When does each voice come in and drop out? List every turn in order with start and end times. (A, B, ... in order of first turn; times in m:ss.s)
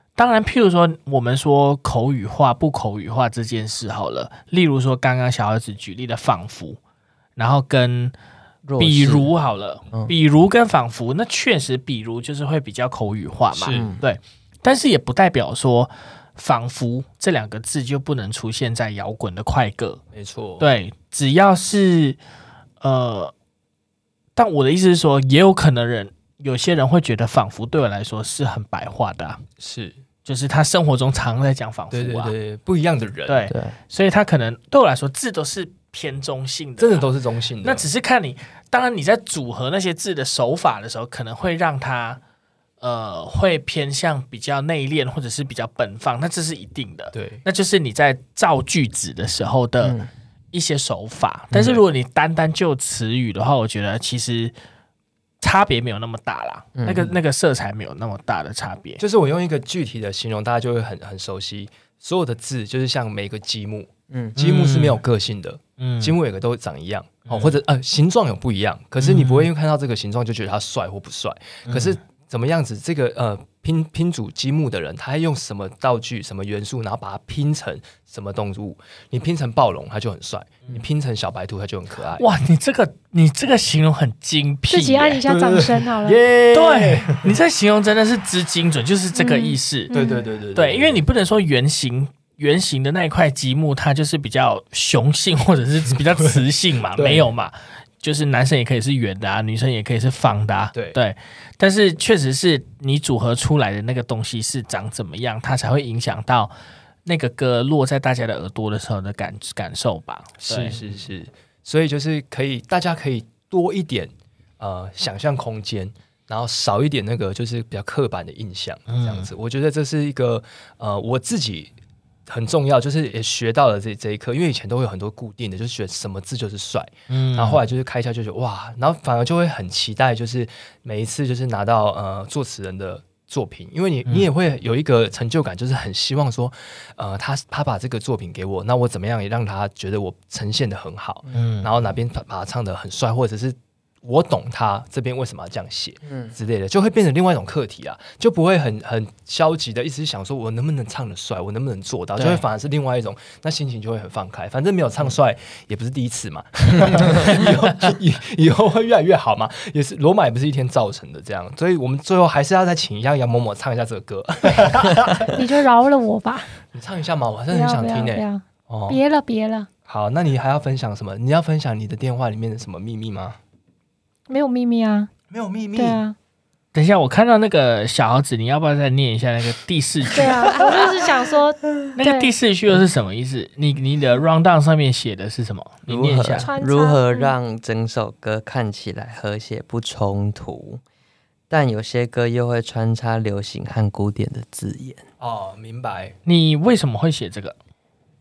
0:00.2-0:06.8 A
0:07.4-0:08.1 A
0:08.6-0:09.3 B
0:08.8-0:20.0 A
0:13.5-0:13.9 C
0:13.7-0:14.0 B
0:20.1-0:20.7 C
0:20.6-0:22.2 A
0:22.8-0:23.3 A
0:24.4-0:29.4 A
0:29.6-0:30.0 C
0:30.2-0:32.3 A
0:31.9-0:33.5 C
0:33.3-0:37.1 A
0:33.5-0:33.8 B
0:36.8-0:37.9 C
0:37.6-0:42.2 A
0:42.8-0:50.0 A
0:47.1-0:47.4 C
0:49.8-0:50.1 B
0:50.5-0:54.5 A
0:55.4-0:59.0 A
0:56.8-0:57.2 B
0:59.0-1:22.2 C
1:04.1-1:04.4 B
1:04.4-1:05.0 A
1:05.8-1:06.2 A
1:07.3-1:07.6 A
1:09.0-1:09.5 A
1:22.1-1:25.2 A
1:24.7-1:26.2 D
1:25.2-1:27.3 C
1:26.4-1:29.9 A
1:29.1-1:30.2 D
1:29.9-1:31.0 C
1:30.5-1:46.5 A
1:36.9-1:37.3 C
1:40.7-1:41.0 C
1:47.0-1:50.9 A
1:50.4-2:01.7 C
1:58.9-1:59.3 A
2:02.3-2:45.4 C
2:07.1-2:07.6 A
2:21.3-2:21.7 A
2:26.0-2:26.3 B
2:32.2-2:32.4 A
2:45.3-2:46.5 D
2:46.7-2:49.0 C
2:47.5-2:49.7 D
2:49.8-2:53.4 C
2:54.3-2:55.1 D
2:55.3-2:56.0 C
2:55.7-2:56.2 D
2:56.7-3:00.7 A
3:00.1-3:02.3 D
3:01.9-3:06.5 A
3:05.9-3:10.8 B
3:06.3-3:07.3 D
3:11.5-3:15.0 B
3:15.2-3:16.2 C
3:16.2-3:17.5 A